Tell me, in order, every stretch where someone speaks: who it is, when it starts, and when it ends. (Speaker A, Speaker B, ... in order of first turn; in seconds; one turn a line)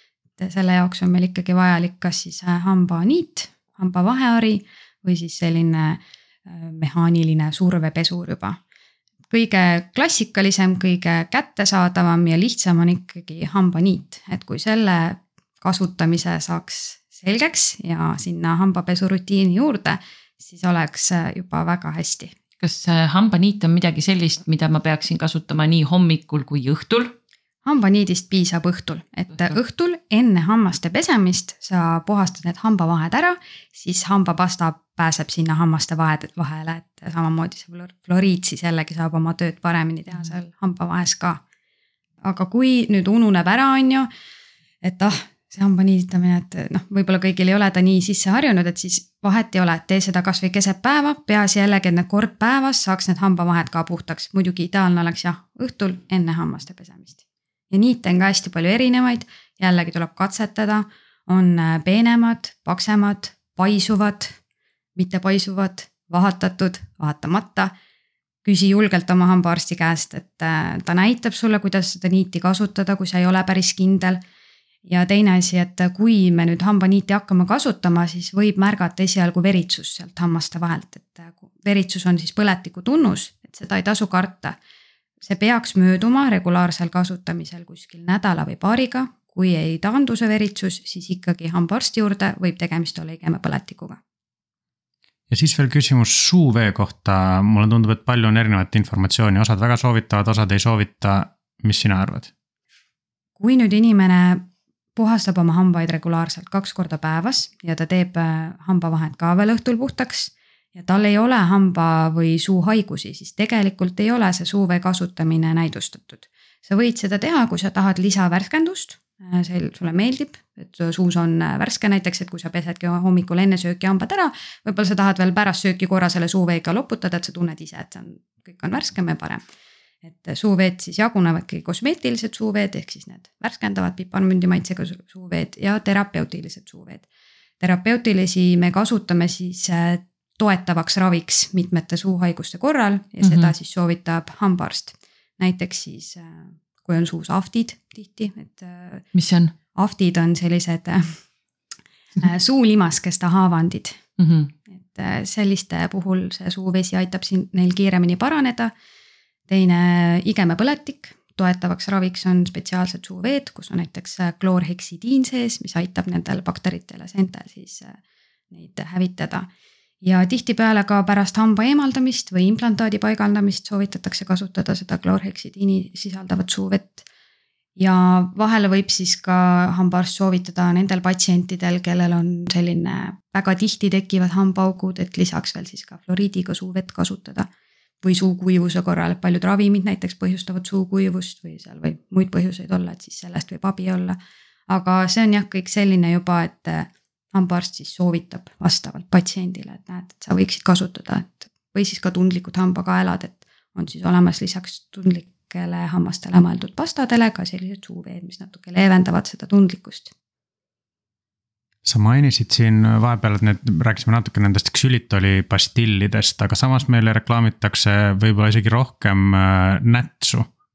Speaker A: 0.4-8.6
Speaker A: 9.3-22.3
Speaker B: 22.6-27.1
Speaker A: 27.6-41.4
Speaker A: 42.2-44.1
Speaker A: 44.8-57.2
Speaker A: 57.7-64.4
Speaker A: 65.0-67.7
Speaker A: 68.4-74.2
Speaker A: 74.9-84.6
Speaker A: 85.2-94.0
Speaker C: 95.3-102.3
Speaker A: 103.4-104.5
Speaker A: 105.0-129.4
Speaker A: 130.0-137.1
Speaker A: 137.6-149.1
Speaker B: 143.2-143.5
Speaker B: 149.1-149.5
Speaker A: 149.7-151.2
Speaker A: 152.2-154.0
Speaker B: 154.2-154.5
Speaker A: 154.7-158.7
Speaker A: 159.5-168.0
Speaker A: 168.5-169.5
Speaker A: 170.0-177.1
Speaker A: 177.8-187.5
Speaker A: 188.0-194.2
Speaker A: 194.7-210.1
Speaker C: 211.8-220.5